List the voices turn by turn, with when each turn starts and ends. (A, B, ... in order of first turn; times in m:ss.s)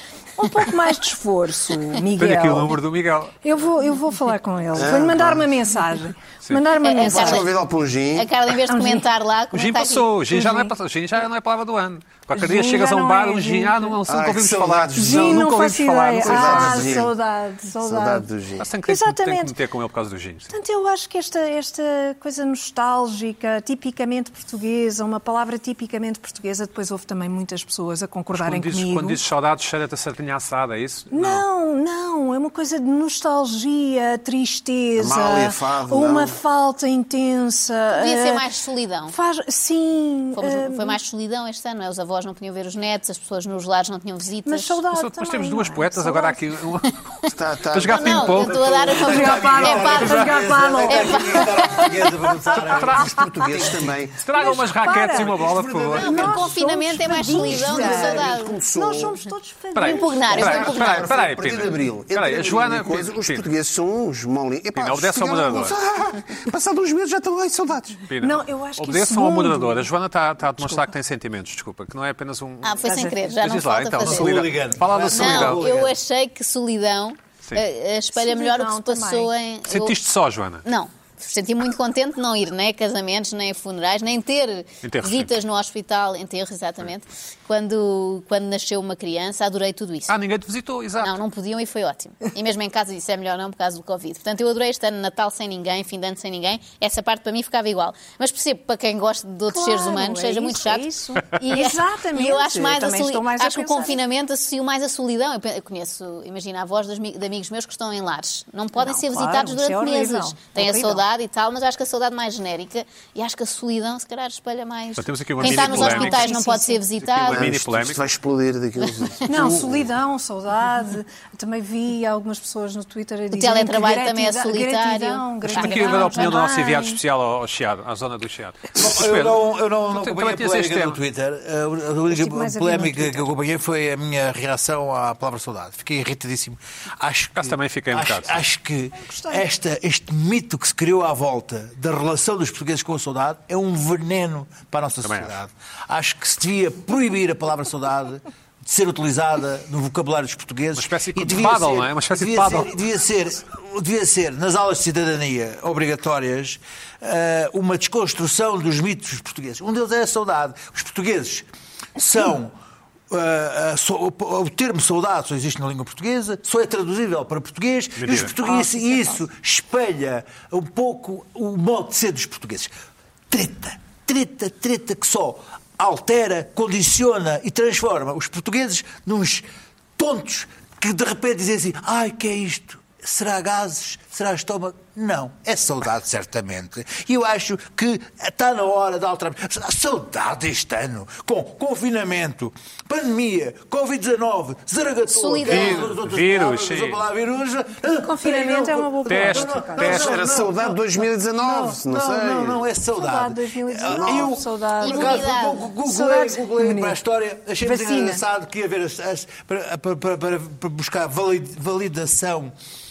0:00.4-0:02.8 A
0:02.2-0:03.4 B
0:03.4-0:07.4 A
0:04.8-0:05.4 C
0:06.8-0:07.5 D
0:07.0-0:08.3 C
0:08.1-0:10.1 D
0:08.7-0:09.1 A
0:09.5-0:17.0 B
0:10.3-0:10.7 A
0:12.3-0:14.0 A
0:14.1-0:15.6 C
0:15.0-0:18.3 A
0:16.2-0:17.1 C
0:17.8-0:18.7 C
0:18.6-0:20.5 B
0:18.8-0:19.6 A
0:20.5-0:29.2 A
0:28.3-0:31.4 B
0:31.1-0:38.5 A
0:35.0-0:36.4 C
0:37.9-0:39.1 D
0:39.1-0:41.0 A
0:40.4-0:44.8 D
0:44.4-0:46.4 A
0:44.9-0:47.0 B
0:47.3-0:49.0 C
0:47.7-0:48.7 B
0:47.9-0:52.1 D
0:48.9-0:53.0 E
0:49.0-0:52.1 A
0:52.6-0:56.3 B
0:52.6-0:56.5 C
0:53.0-0:53.4 A
0:54.3-0:55.4 A
0:55.9-1:00.6 A
0:56.0-0:58.6 D
0:57.2-0:59.2 C
0:59.7-1:03.5 B
0:59.8-1:01.1 D
1:00.3-1:08.1 C
1:04.8-1:05.8 B
1:08.1-1:15.7 B
1:08.2-1:09.9 A
1:10.6-1:10.9 A
1:12.6-1:14.3 D
1:12.8-1:13.2 A
1:14.0-1:16.0 E
1:15.0-1:20.0 D
1:18.1-1:19.3 A
1:19.7-1:20.6 B
1:20.6-1:30.1 D
1:24.8-1:25.3 B
1:30.1-1:31.2 B
1:31.0-1:40.8 D
1:39.5-1:44.0 A
1:41.4-1:57.4 D
1:48.8-1:51.0 A
1:55.0-1:56.3 B
1:55.4-1:56.8 A
1:57.0-1:58.0 B
1:57.2-1:59.8 C
1:59.2-1:59.6 D
1:59.3-2:07.0 A
2:03.3-2:06.4 D
2:05.5-2:11.0 B
2:08.8-2:42.5 E
2:12.1-2:13.3 A
2:17.4-2:18.4 B
2:19.0-2:19.4 A
2:25.0-2:25.3 B
2:30.8-2:32.7 B
2:43.1-2:52.7 E
2:48.0-2:48.3 B
2:48.4-2:49.2 A
2:53.3-2:59.5 E
3:00.0-3:20.8 E
3:15.1-3:15.9 D
3:15.4-3:17.0 B
3:18.0-3:20.1 A
3:19.1-3:20.1 B
3:19.8-3:22.6 C
3:21.7-3:32.5 E
3:22.9-3:27.0 A
3:23.8-3:24.3 C
3:24.8-3:25.6 D
3:27.6-3:28.2 A